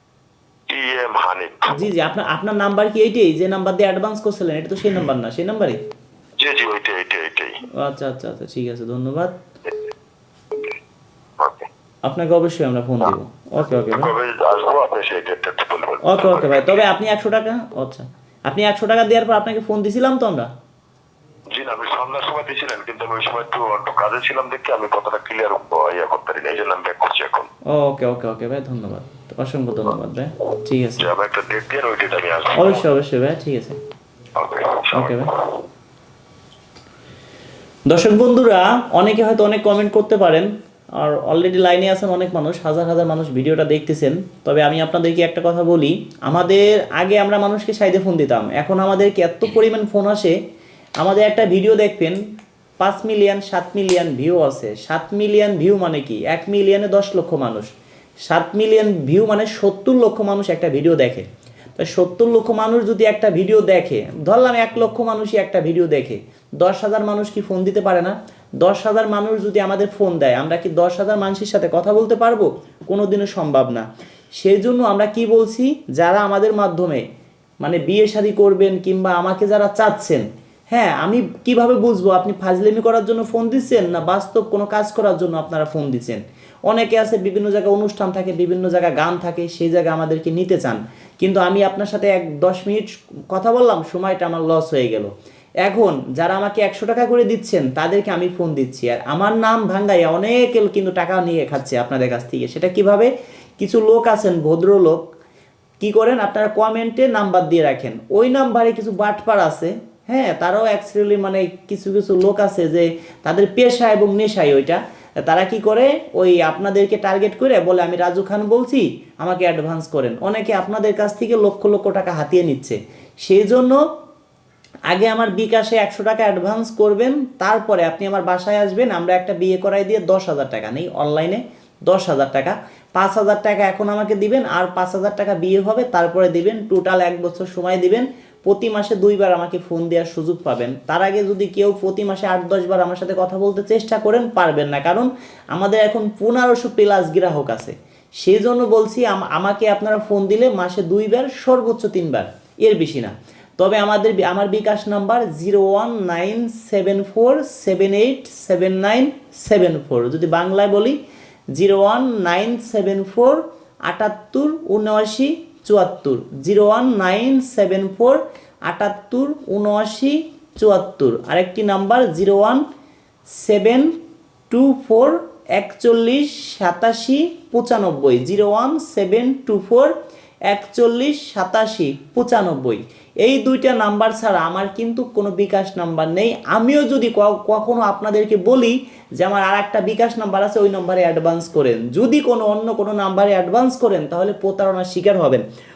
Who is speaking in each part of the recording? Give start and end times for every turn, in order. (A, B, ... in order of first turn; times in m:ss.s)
0:00.7-0:01.7 A
0:01.7-0:05.8 B
0:06.4-0:07.6 A
0:07.8-0:09.3 B
0:11.4-0:11.7 A
0:12.0-0:14.1 B
0:13.7-0:16.8 A
0:16.0-0:20.5 B
0:21.5-0:27.5 A
0:27.7-0:31.1 B
0:31.0-0:32.9 A
0:32.6-0:33.8 B
0:34.4-0:35.6 A
0:34.9-0:35.3 B
0:37.9-0:40.5 B
0:41.0-0:50.3 B
0:51.0-0:52.2 B
0:52.8-0:57.7 B
0:58.3-1:01.2 B
1:01.8-1:13.8 B
1:14.4-1:17.0 B
1:17.6-1:35.1 B
1:35.6-1:45.0 B
1:45.8-2:03.8 B
2:04.9-2:41.0 B
2:41.5-2:52.6 B
2:53.4-2:53.9 B
2:54.5-2:59.9 B
3:00.5-3:15.4 B